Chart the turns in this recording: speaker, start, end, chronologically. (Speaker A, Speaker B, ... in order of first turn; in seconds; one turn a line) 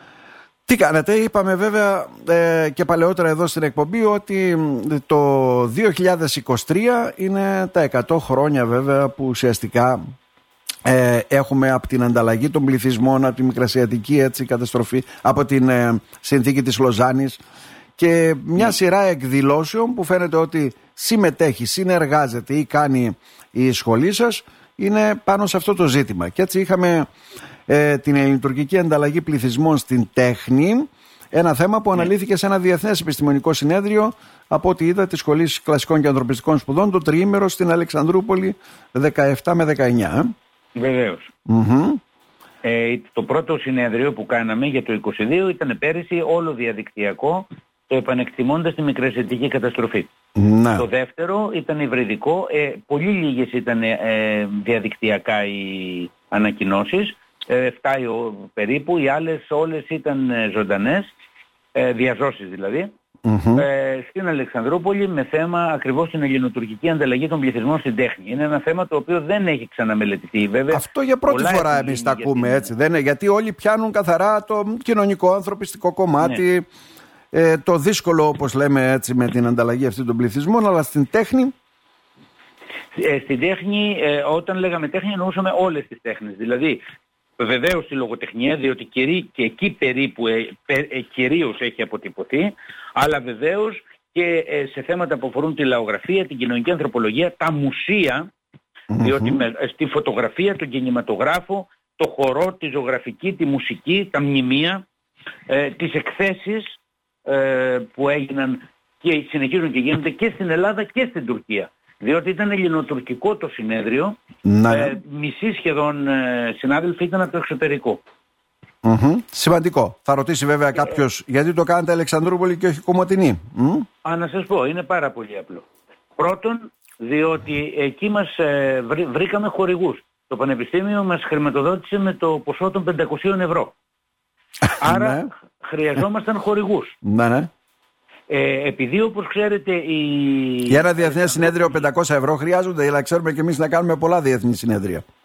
Speaker A: 0.7-10.0
Speaker A: 10.8-17.4
Speaker A: 18.0-27.1
Speaker A: 27.7-40.3
Speaker B: 40.8-41.3
Speaker A: 41.5-42.0
Speaker B: 42.6-50.1
Speaker A: 50.4-50.9
Speaker B: 50.8-61.1
Speaker B: 61.8-62.9
Speaker A: 63.2-63.7
Speaker B: 63.5-72.7
Speaker A: 70.7-76.7
Speaker A: 77.3-81.5
Speaker B: 82.9-86.8
Speaker B: 87.4-98.3
Speaker A: 98.9-99.4
Speaker B: 99.0-104.8
Speaker B: 105.5-114.2
Speaker A: 114.4-115.0
Speaker B: 114.7-118.0
Speaker A: 118.8-123.9
Speaker B: 124.0-125.7
Speaker B: 126.2-133.7
Speaker A: 134.6-135.3
Speaker B: 134.8-136.9
Speaker A: 137.0-137.5
Speaker B: 138.3-141.9
Speaker A: 140.7-145.0